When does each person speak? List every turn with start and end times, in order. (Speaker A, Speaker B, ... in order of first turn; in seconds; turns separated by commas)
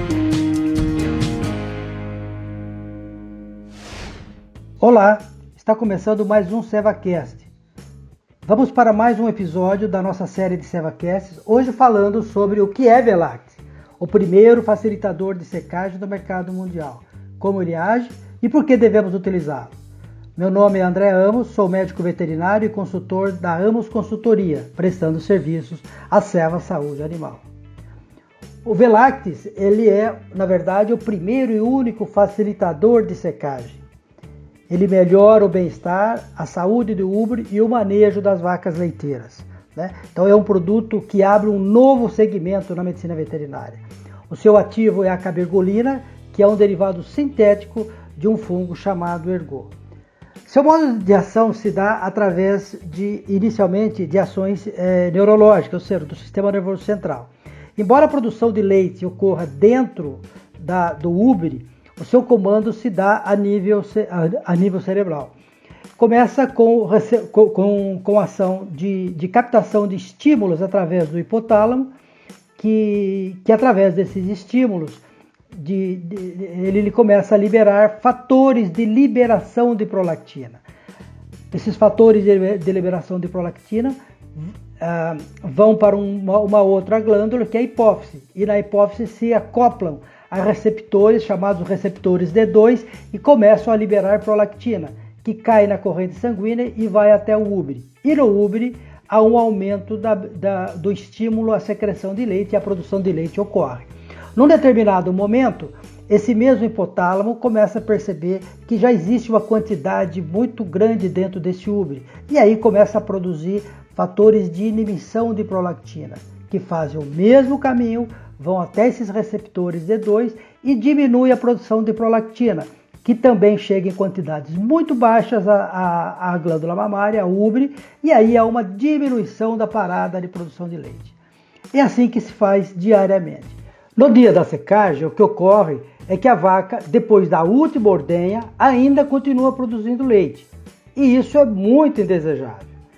Speaker A: 4.8-7.5, Speaker A: 8.4-19.7, Speaker A: 20.4-27.4, Speaker A: 28.6-33.8, Speaker A: 34.7-49.7, Speaker A: 50.5-65.3, Speaker A: 66.0-71.9, Speaker A: 72.6-80.6, Speaker A: 81.5-131.1, Speaker A: 131.7-142.7